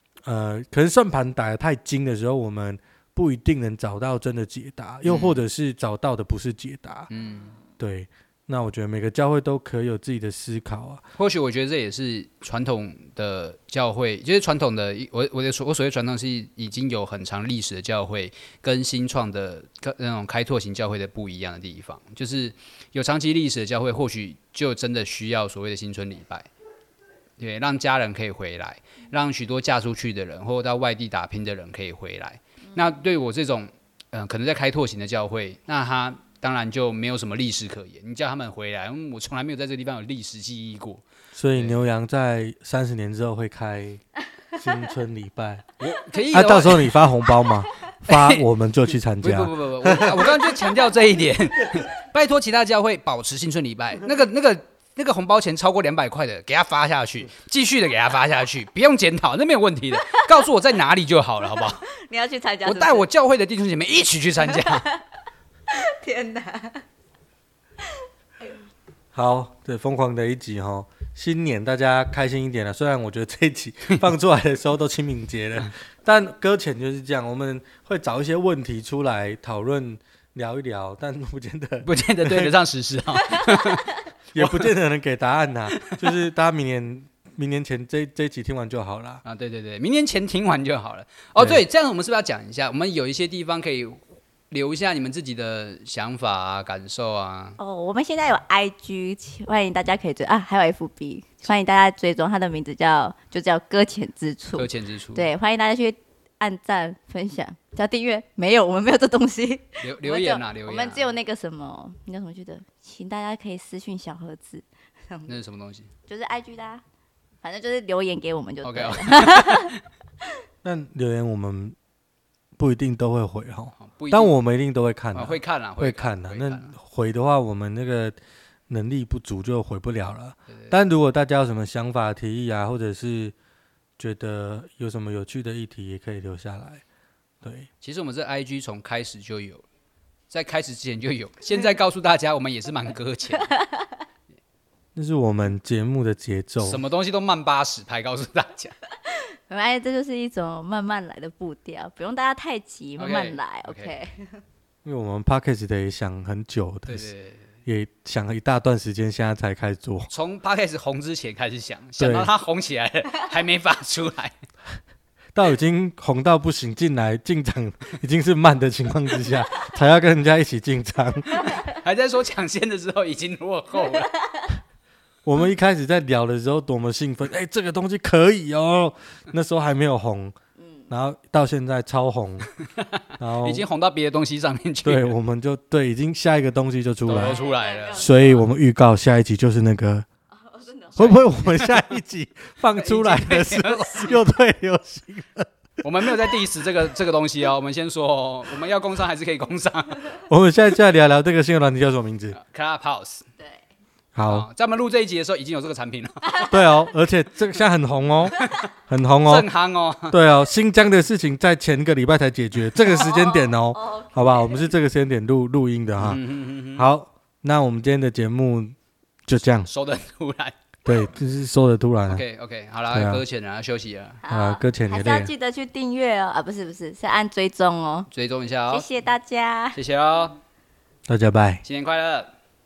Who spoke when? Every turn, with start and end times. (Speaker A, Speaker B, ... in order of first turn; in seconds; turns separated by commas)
Speaker A: 0.2-7.1, Speaker B: 5.0-5.4, Speaker B: 7.1-7.6, Speaker A: 7.8-11.0, Speaker B: 11.2-26.5, Speaker B: 27.4-41.0, Speaker A: 41.3-44.0, Speaker A: 44.5-45.7, Speaker B: 45.8-47.0, Speaker A: 46.3-50.4, Speaker B: 48.1-48.5, Speaker B: 49.2-61.9, Speaker C: 60.0-60.4, Speaker C: 62.0-63.1, Speaker B: 62.6-64.8, Speaker C: 64.5-65.0, Speaker C: 65.7-66.8, Speaker A: 69.1-82.5, Speaker B: 81.8-84.7, Speaker C: 83.2-84.0, Speaker A: 84.3-89.2, Speaker B: 85.8-86.2, Speaker B: 89.2-97.6, Speaker A: 91.4-91.6, Speaker C: 97.6-115.3, Speaker B: 104.5-105.3, Speaker B: 109.8-111.1, Speaker B: 115.3-115.9, Speaker C: 116.1-116.8, Speaker C: 117.4-119.7, Speaker B: 118.6-119.7, Speaker A: 120.6-121.8, Speaker A: 122.6-128.2, Speaker B: 123.8-124.3, Speaker B: 125.1-126.7, Speaker A: 128.7-133.3, Speaker B: 130.5-130.8, Speaker A: 134.0-136.8, Speaker A: 137.4-137.7, Speaker B: 137.8-139.6, Speaker B: 140.3-143.5, Speaker A: 144.9-146.8, Speaker B: 146.6-148.7, Speaker C: 149.1-154.4, Speaker B: 153.0-153.9, Speaker A: 154.8-157.1, Speaker B: 156.9-157.5, Speaker A: 157.7-160.1, Speaker B: 160.1-164.3, Speaker A: 162.0-162.3, Speaker A: 165.3-171.4, Speaker B: 171.3-174.1, Speaker C: 173.8-174.5, Speaker A: 175.2-180.3, Speaker C: 180.6-180.9, Speaker A: 180.9-182.5, Speaker B: 182.6-185.1, Speaker A: 183.2-183.7, Speaker A: 184.8-187.4, Speaker B: 187.1-188.1, Speaker C: 187.1-188.4, Speaker A: 187.9-190.1, Speaker C: 190.3-191.0, Speaker B: 191.0-191.9, Speaker A: 191.0-195.5, Speaker B: 192.8-194.2, Speaker B: 195.8-200.2, Speaker A: 196.0-196.3, Speaker A: 200.3-202.4, Speaker B: 202.4-203.2, Speaker C: 203.4-203.6, Speaker A: 204.1-204.5, Speaker B: 204.2-206.4, Speaker C: 206.2-206.8, Speaker A: 206.5-209.5, Speaker B: 209.2-210.2, Speaker A: 210.1-216.2, Speaker C: 212.8-214.7, Speaker B: 216.0-216.9, Speaker A: 216.7-218.7, Speaker A: 219.3-219.7, Speaker B: 219.7-220.6, Speaker A: 220.8-222.2, Speaker B: 222.1-224.2, Speaker A: 222.9-223.2, Speaker C: 224.2-228.1, Speaker A: 224.3-225.3, Speaker B: 228.1-228.9, Speaker C: 228.7-229.8, Speaker B: 229.7-230.4, Speaker A: 231.1-231.6, Speaker B: 231.6-232.3